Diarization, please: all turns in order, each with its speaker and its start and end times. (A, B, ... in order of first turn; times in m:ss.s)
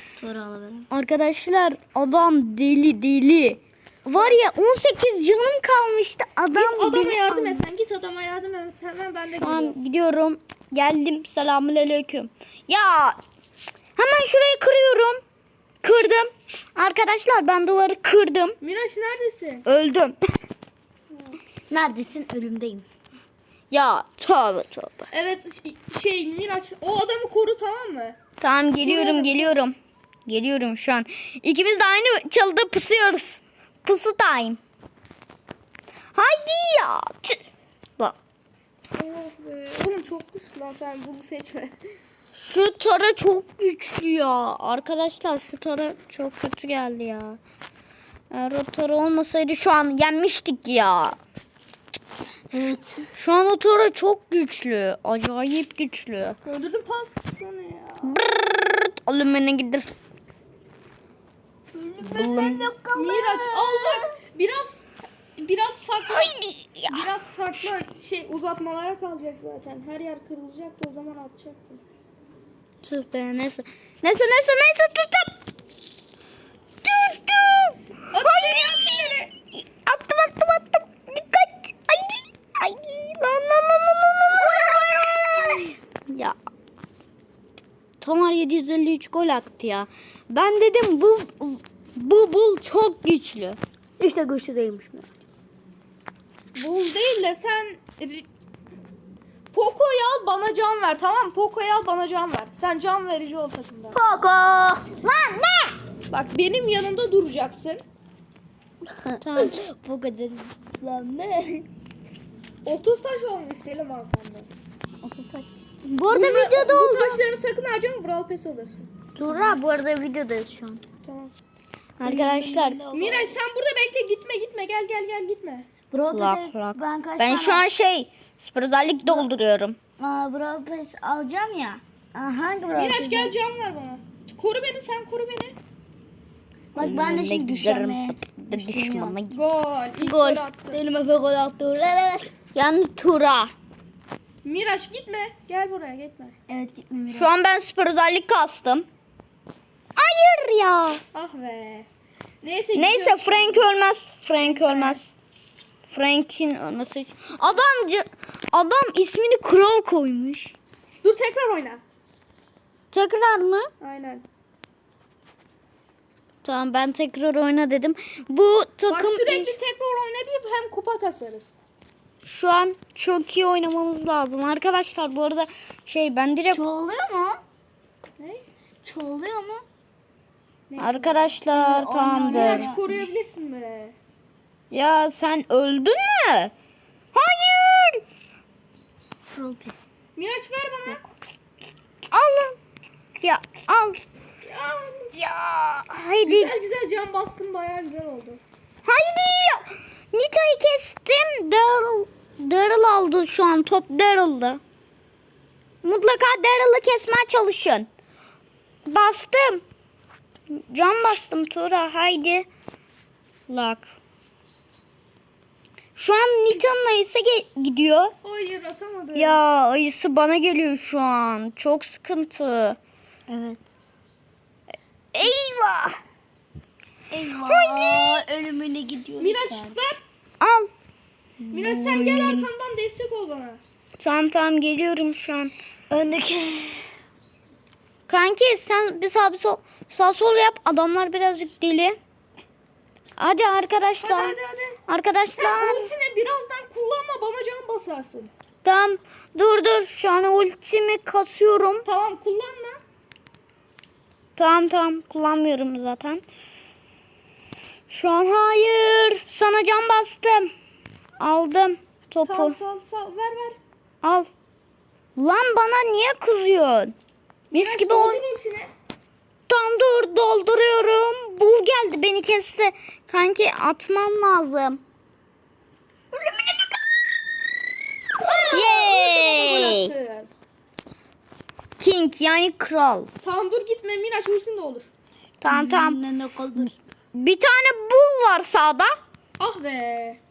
0:00.2-0:00.9 A
0:00.9-0:07.6 B
0:06.5-0:09.8 C
0:09.4-0:13.2 B
0:14.0-0:15.2 B
0:15.8-0:18.6 B
0:18.6-0:19.6 C
0:19.7-0:20.2 B
0:21.7-0:22.8 A
0:23.7-0:25.1 B
0:25.1-0:28.2 C
0:28.4-0:29.8 B
0:28.8-0:29.5 C
0:30.3-0:34.6 B
0:36.1-0:37.4 B
0:38.9-0:41.8 C
0:42.4-0:47.4 B
0:48.3-0:51.2 B
0:52.5-0:53.0 A
0:53.2-0:56.4 B
0:56.5-0:58.2 C
0:58.0-0:59.9 B
1:01.8-1:04.1 A
1:02.0-1:02.7 B
1:02.9-1:04.8 C
1:05.4-1:06.3 C
1:06.1-1:07.0 B
1:06.9-1:11.8 C
1:12.8-1:15.3 B
1:16.8-1:26.4 B
1:18.1-1:19.3 C
1:28.0-1:33.6 B
1:34.0-1:35.1 A
1:36.5-1:38.3 C
1:39.5-1:44.0 C
1:43.9-1:44.9 A
1:45.0-1:45.8 B
1:46.1-1:47.8 C
1:49.0-1:51.7 A
1:49.2-1:49.5 B
1:52.6-1:54.5 C
1:55.0-1:55.5 A
1:55.8-1:57.2 B
1:56.1-1:58.9 C
1:59.2-2:00.8 B
1:59.2-1:59.5 A
2:01.0-2:01.3 C
2:02.0-2:02.8 B
2:02.0-2:03.4 A
2:02.9-2:05.7 C
2:05.9-2:07.6 A
2:06.1-2:09.8 B
2:10.0-2:13.3 A
2:12.8-2:15.6 C
2:16.7-2:19.2 A
2:16.8-2:19.4 B
2:19.3-2:20.8 C
2:20.0-2:20.4 B
2:20.7-2:22.3 A
2:22.5-2:23.5 B
2:24.4-2:26.3 C
2:26.5-2:27.3 A
2:27.1-2:28.8 B
2:30.0-2:31.0 B
2:31.1-2:31.9 C
2:32.4-2:33.7 C
2:32.7-2:35.2 B
2:34.4-2:35.0 C
2:35.9-2:40.5 B
2:41.0-2:41.8 C
2:42.9-2:43.7 B
2:43.8-2:44.2 C
2:46.4-2:49.6 B
2:48.9-2:51.6 C
2:52.2-2:56.6 B
2:56.5-2:57.4 A
2:58.2-2:58.4 C
2:58.8-2:59.6 A
3:00.7-3:01.4 C
3:00.8-3:02.7 B
3:01.5-3:03.1 A
3:02.2-3:04.0 C
3:04.7-3:06.5 B
3:07.1-3:08.0 B
3:09.3-3:09.8 A
3:10.2-3:11.0 C
3:12.1-3:12.6 B
3:13.2-3:14.0 B
3:14.4-3:15.1 C
3:15.2-3:16.5 B
3:16.2-3:18.4 C
3:18.8-3:24.6 B
3:25.8-3:27.9 B
3:28.8-3:29.6 B
3:30.5-3:32.5 B
3:33.5-3:33.9 B
3:36.0-3:38.2 B
3:38.2-3:39.4 C
3:39.2-3:42.8 B
3:43.3-3:43.7 A
3:45.1-3:46.0 B
3:47.1-3:49.8 A
3:47.4-3:48.2 B
3:49.2-3:50.0 C
3:50.4-3:50.7 B
3:51.5-3:53.6 C
3:51.5-3:52.5 B
3:54.0-3:55.5 B
3:55.9-3:56.9 A
3:58.1-4:02.0 B
4:03.2-4:04.3 B
4:04.0-4:04.8 C
4:04.9-4:05.9 B
4:05.3-4:08.3 C
4:08.6-4:11.8 B
4:11.8-4:12.8 C
4:14.4-4:16.2 B
4:17.9-4:20.5 B
4:21.2-4:22.6 B
4:22.2-4:23.6 C
4:24.0-4:24.3 B
4:25.2-4:27.0 B
4:27.5-4:28.2 B
4:27.5-4:28.7 C
4:29.5-4:34.8 B
4:38.2-4:40.3 C
4:38.5-4:39.9 B
4:41.8-4:43.1 B
4:43.2-4:44.9 C
4:45.4-4:46.0 B
4:45.5-4:46.8 A
4:47.1-4:49.0 B
4:49.4-4:50.2 C